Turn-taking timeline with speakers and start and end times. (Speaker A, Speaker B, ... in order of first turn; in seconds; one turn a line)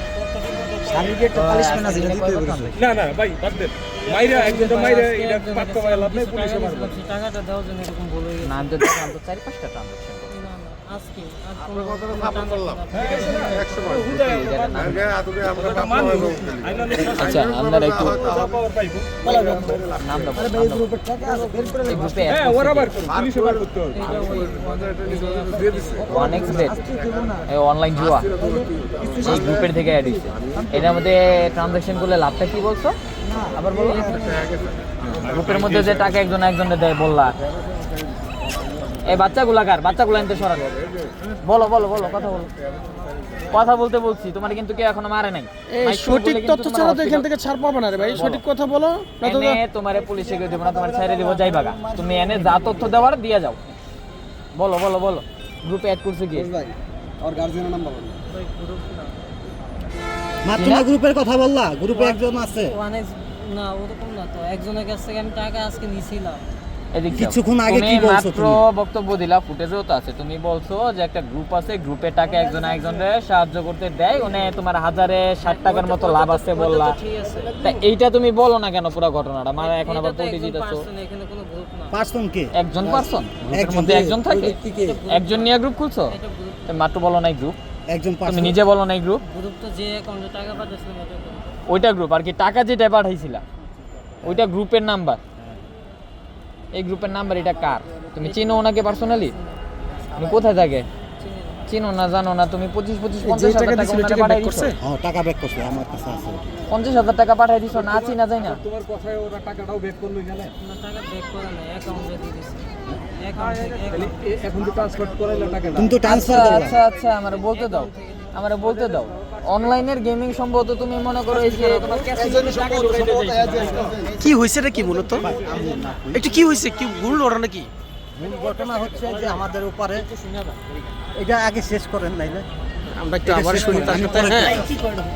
Speaker A: 0.9-2.5
Speaker B: 1.2-2.8
Speaker C: 2.7-7.0
Speaker D: 4.1-8.9
Speaker B: 8.4-10.4
Speaker D: 10.3-14.0
Speaker C: 12.9-14.4
Speaker B: 13.9-15.5
Speaker C: 15.4-17.5
Speaker B: 17.1-18.3
Speaker C: 18.1-19.1
Speaker B: 19.2-21.1
Speaker B: 21.6-23.0
Speaker C: 22.2-24.1
Speaker D: 23.9-26.7
Speaker B: 26.0-26.8
Speaker B: 27.5-28.3
Speaker B: 29.1-33.0
Speaker B: 33.5-34.4
Speaker B: 35.0-37.4
Speaker C: 35.2-36.2
Speaker B: 39.0-40.7
Speaker B: 41.4-42.5
Speaker B: 43.5-47.3
Speaker E: 45.7-49.6
Speaker B: 48.1-48.5
Speaker B: 49.2-53.7
Speaker B: 54.5-56.5
Speaker A: 57.4-57.9
Speaker D: 58.3-59.2
Speaker A: 60.5-62.8
Speaker B: 60.6-60.9
Speaker D: 61.9-66.4
Speaker B: 66.9-77.0
Speaker A: 67.1-68.6
Speaker D: 75.4-77.8
Speaker B: 77.6-80.9
Speaker D: 79.6-82.0
Speaker A: 81.9-85.0
Speaker B: 82.5-87.6
Speaker D: 84.7-85.6
Speaker D: 86.1-86.7
Speaker A: 87.9-88.6
Speaker B: 88.2-89.2
Speaker D: 89.3-91.6
Speaker B: 91.7-93.4
Speaker A: 94.2-94.5
Speaker B: 94.2-95.2
Speaker B: 96.7-99.3
Speaker D: 98.2-99.6
Speaker B: 100.2-100.9
Speaker D: 101.2-101.6
Speaker B: 101.7-104.7
Speaker E: 103.2-104.8
Speaker A: 104.8-106.4
Speaker B: 106.7-108.6
Speaker C: 107.7-110.5
Speaker D: 110.6-114.3
Speaker C: 113.7-116.0
Speaker A: 115.7-116.8
Speaker B: 116.0-124.0
Speaker E: 124.2-125.3
Speaker A: 125.2-126.3
Speaker E: 126.1-127.7
Speaker A: 128.2-130.1
Speaker B: 130.1-130.7
Speaker A: 131.2-132.5
Speaker E: 132.9-134.6
Speaker A: 133.2-134.7